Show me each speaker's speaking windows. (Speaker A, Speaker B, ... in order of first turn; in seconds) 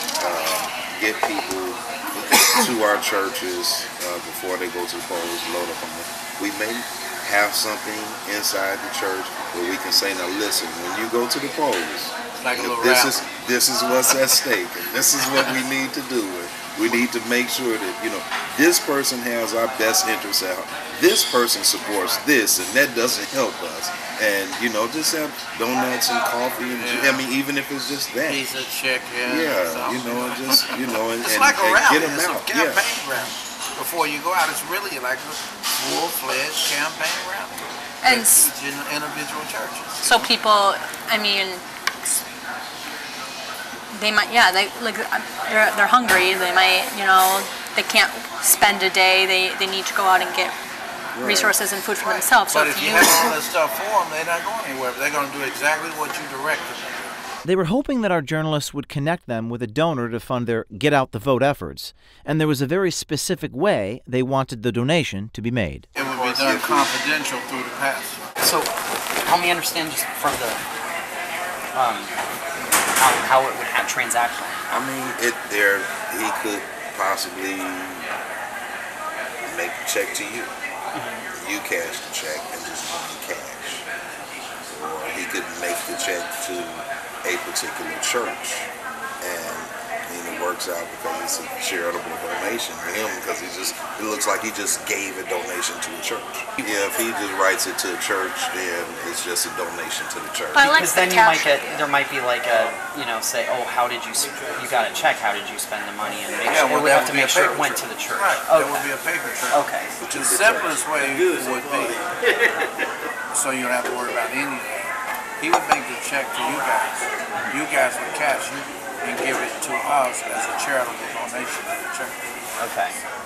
Speaker A: 0.2-28.4, 29.2-32.9, 51.1-51.5, 66.0-66.9, 74.7-78.1, 79.5-80.5, 81.3-83.9, 84.7-88.7, 89.2-100.7, 110.0-110.8
Speaker B: 12.3-13.2, 22.0-22.2, 26.8-27.3, 28.2-40.4, 52.0-57.1, 65.9-68.2, 106.4-112.1, 113.3-122.3
Speaker C: 38.0-38.5, 40.0-41.6, 43.9-50.5, 51.2-53.4, 100.5-101.9
Speaker D: 57.4-65.9
Speaker E: 68.4-68.7, 69.2-70.6, 71.7-72.1, 72.9-74.8, 80.9-81.3, 100.6-108.9, 109.5-109.9, 122.6-123.0